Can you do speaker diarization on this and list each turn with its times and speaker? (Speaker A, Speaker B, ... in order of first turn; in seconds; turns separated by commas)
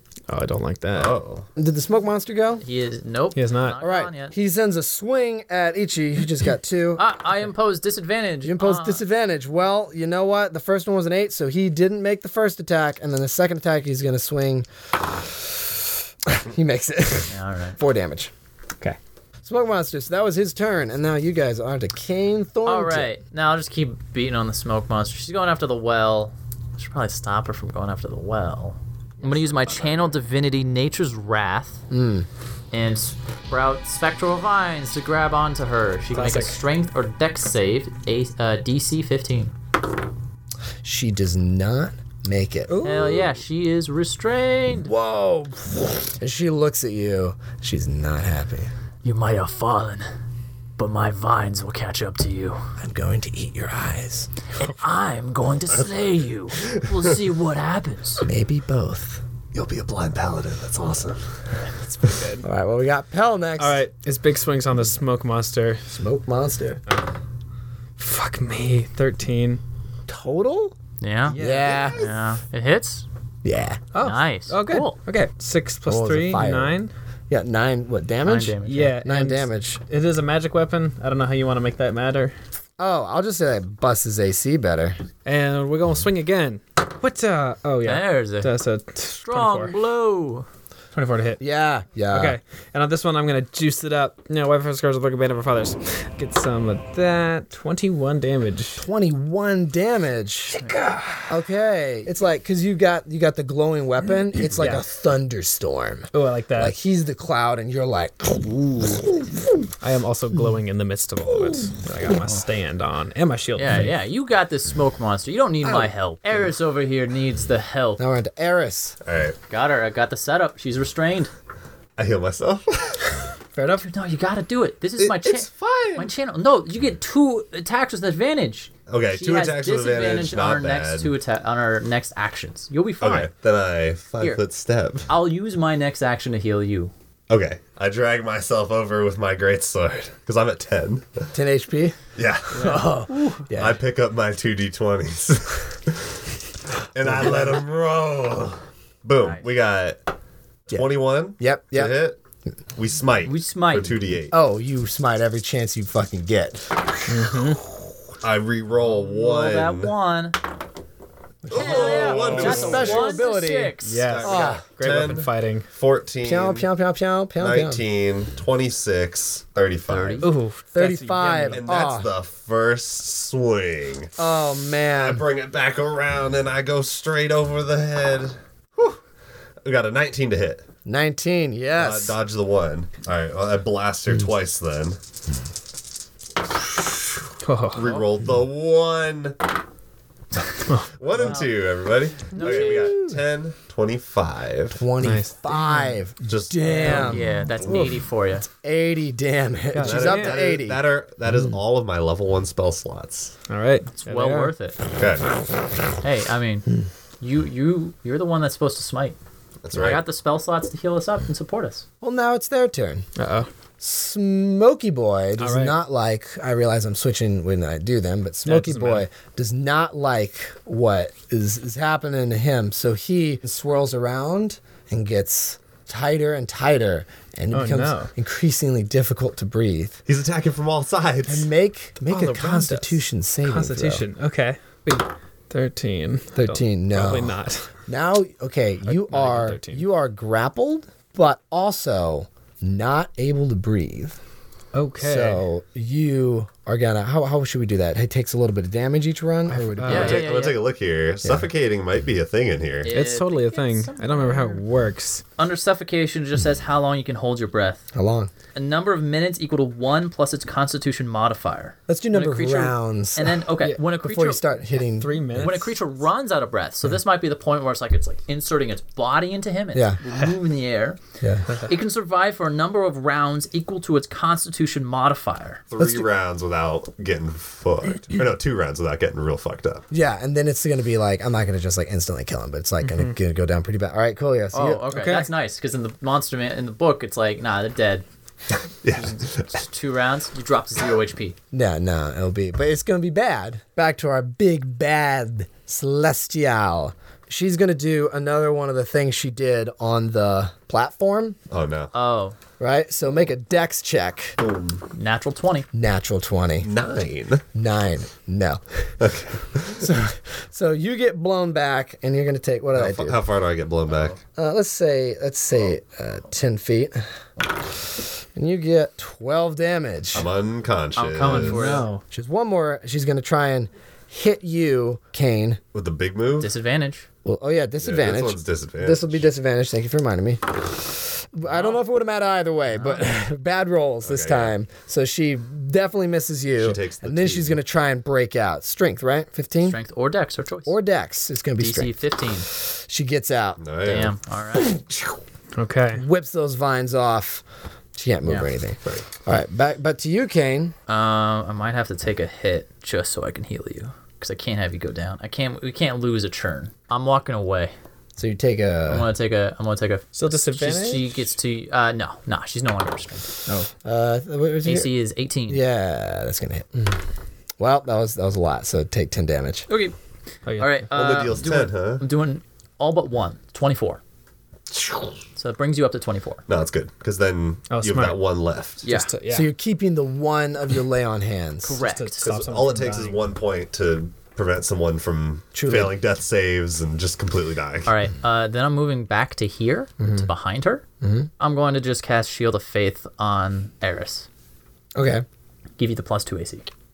Speaker A: 0.3-1.1, Speaker B: 0.9-1.5, Speaker C: 1.6-2.6, Speaker D: 2.6-4.3, Speaker A: 3.3-3.8, Speaker C: 3.8-7.0, Speaker D: 7.0-9.0, Speaker C: 8.4-15.4, Speaker C: 16.2-18.3, Speaker D: 17.3-17.8, Speaker C: 19.4-23.1, Speaker D: 22.6-31.8, Speaker B: 29.2-30.1, Speaker C: 31.9-32.3, Speaker D: 32.7-39.5, Speaker A: 36.1-36.6, Speaker C: 40.8-42.7, Speaker A: 42.7-43.3, Speaker D: 42.8-44.9, Speaker C: 44.8-48.7, Speaker D: 49.0-50.1, Speaker D: 50.8-52.6, Speaker C: 52.8-54.3, Speaker D: 54.6-58.2, Speaker B: 55.7-57.2, Speaker C: 58.2-59.2, Speaker B: 59.5-61.4, Speaker A: 61.9-62.4, Speaker C: 62.4-63.8, Speaker A: 63.6-65.8, Speaker C: 65.9-66.8, Speaker A: 68.0-69.6, Speaker C: 70.1-70.7, Speaker D: 71.0-71.4, Speaker A: 71.3-71.9, Speaker C: 71.3-72.0, Speaker D: 71.9-73.0, Speaker C: 73.4-73.8, Speaker A: 73.9-76.9, Speaker D: 74.0-75.0, Speaker C: 75.8-76.8, Speaker C: 77.3-79.8, Speaker D: 78.2-79.0, Speaker A: 78.6-82.3, Speaker C: 82.8-85.0, Speaker A: 85.2-89.7, Speaker D: 87.8-88.5, Speaker D: 89.2-90.5, Speaker A: 90.9-91.4, Speaker C: 91.4-92.4, Speaker A: 92.1-98.8, Speaker C: 98.8-100.6, Speaker A: 100.6-101.3, Speaker C: 101.3-109.5, Speaker A: 104.5-104.8, Speaker A: 106.1-106.8, Speaker A: 109.8-113.9, Speaker D: 113.5-118.0, Speaker C: 118.0-119.0, Speaker B: 119.0-119.4, Speaker D: 119.5-121.3, Speaker B: 122.0-123.2, Speaker A: 123.5-123.8, Speaker D: 123.8-133.3, Speaker B: 125.0-126.1, Speaker B: 128.9-131.1, Speaker B: 133.0-135.1, Speaker D: 135.1-136.9, Speaker B: 137.3-141.3, Speaker C: 141.3-142.0, Speaker B: 142.2-142.8, Speaker D: 142.5-143.4, Speaker C: 142.6-143.8, Speaker B: 143.6-146.2, Speaker B: 146.9-150.0, Speaker C: 147.1-147.6, Speaker B: 150.7-152.2, Speaker C: 150.7-152.0, Speaker B: 152.8-154.3, Speaker D: 153.2-154.0, Speaker C: 154.3-156.7, Speaker A: 157.1-157.6, Speaker B: 158.2-159.9, Speaker D: 158.8-160.4, Speaker C: 161.4-164.6, Speaker B: 161.5-163.2, Speaker D: 161.5-164.1, Speaker A: 161.6-162.9, Speaker A: 163.8-165.7, Speaker B: 164.0-166.7, Speaker C: 166.2-167.8, Speaker B: 167.4-170.3, Speaker D: 169.9-170.3, Speaker A: 170.2-171.7, Speaker C: 170.7-172.1, Speaker B: 171.5-174.2, Speaker C: 174.2-175.2, Speaker B: 175.0-179.0, Speaker B: 179.6-180.7, Speaker C: 180.8-182.2, Speaker B: 181.7-185.0, Speaker A: 187.4-187.8, Speaker B: 187.7-189.4, Speaker B: 190.9-194.8, Speaker D: 191.2-191.6, Speaker D: 192.3-193.0, Speaker C: 192.4-193.1, Speaker C: 194.7-197.3, Speaker A: 195.0-196.0, Speaker B: 196.2-197.9, Speaker D: 196.8-198.4, Speaker A: 196.8-197.2, Speaker C: 198.5-200.8, Speaker A: 199.7-200.4, Speaker B: 199.8-203.3, Speaker A: 203.5-204.5, Speaker D: 204.0-204.8, Speaker B: 204.9-205.3, Speaker D: 206.0-206.7, Speaker D: 207.2-209.2, Speaker B: 209.6-210.0, Speaker D: 209.7-211.8, Speaker C: 212.0-213.1, Speaker A: 213.2-213.5, Speaker C: 213.8-230.0, Speaker A: 215.4-215.8, Speaker A: 218.4-219.1, Speaker A: 227.5-228.1, Speaker B: 230.1-231.5, Speaker C: 231.3-234.0, Speaker A: 232.1-237.7, Speaker C: 236.3-237.3, Speaker C: 237.9-244.2, Speaker A: 238.9-239.8, Speaker A: 244.7-245.4, Speaker C: 245.0-250.3, Speaker A: 249.5-250.4, Speaker D: 249.8-250.6, Speaker B: 249.9-252.9, Speaker C: 251.2-251.5, Speaker D: 252.8-254.6, Speaker A: 252.9-255.2, Speaker D: 255.4-257.9, Speaker C: 257.9-258.3, Speaker D: 258.5-264.4, Speaker C: 261.9-265.6, Speaker A: 264.9-265.7, Speaker D: 265.4-271.0, Speaker C: 271.2-271.5, Speaker A: 271.5-271.7, Speaker D: 271.6-275.6, Speaker B: 275.7-279.8, Speaker C: 275.8-276.1, Speaker C: 279.9-284.9, Speaker A: 282.8-283.1, Speaker D: 284.5-288.0, Speaker A: 284.9-285.3, Speaker B: 288.8-289.5, Speaker D: 288.9-291.4, Speaker C: 291.5-301.4, Speaker B: 301.5-301.9, Speaker D: 301.9-302.4, Speaker C: 302.6-304.4, Speaker B: 304.4-304.8, Speaker D: 304.9-305.7, Speaker C: 305.7-306.7, Speaker B: 306.6-307.4, Speaker C: 307.5-308.6, Speaker B: 309.0-309.9, Speaker C: 309.7-313.2, Speaker B: 312.7-314.2, Speaker C: 314.4-317.0, Speaker C: 318.3-320.3, Speaker B: 320.1-321.8, Speaker D: 320.9-321.9, Speaker A: 321.2-322.0, Speaker C: 322.1-325.6, Speaker B: 325.7-326.5, Speaker D: 326.4-327.1, Speaker C: 327.2-339.8, Speaker B: 327.8-329.2, Speaker D: 331.5-331.8, Speaker D: 332.7-333.1, Speaker B: 334.0-334.5, Speaker B: 336.6-337.6, Speaker D: 339.6-340.7, Speaker C: 340.6-342.0, Speaker D: 341.6-342.5, Speaker C: 342.6-344.0, Speaker B: 343.6-344.1, Speaker D: 343.9-344.8, Speaker C: 344.6-345.2, Speaker A: 345.6-346.0, Speaker C: 345.9-347.4, Speaker C: 347.9-350.7, Speaker D: 350.9-357.7, Speaker C: 358.2-359.1, Speaker D: 358.9-363.3, Speaker A: 360.1-361.2, Speaker C: 363.5-364.9, Speaker D: 364.6-365.6, Speaker C: 365.5-367.0, Speaker C: 367.6-369.7, Speaker D: 369.7-369.9, Speaker A: 370.4-370.8, Speaker D: 370.5-374.0, Speaker B: 370.9-372.0, Speaker B: 374.7-375.1, Speaker D: 375.4-376.4, Speaker B: 376.5-378.8, Speaker A: 377.7-378.2, Speaker D: 378.8-379.1, Speaker A: 378.8-379.5, Speaker C: 379.3-381.8, Speaker D: 381.6-382.2, Speaker A: 381.8-383.2, Speaker B: 382.2-387.9, Speaker C: 385.5-385.9, Speaker D: 387.9-390.8, Speaker C: 390.0-390.3, Speaker C: 391.0-391.3, Speaker D: 391.4-394.3, Speaker C: 394.9-395.2, Speaker D: 395.8-396.7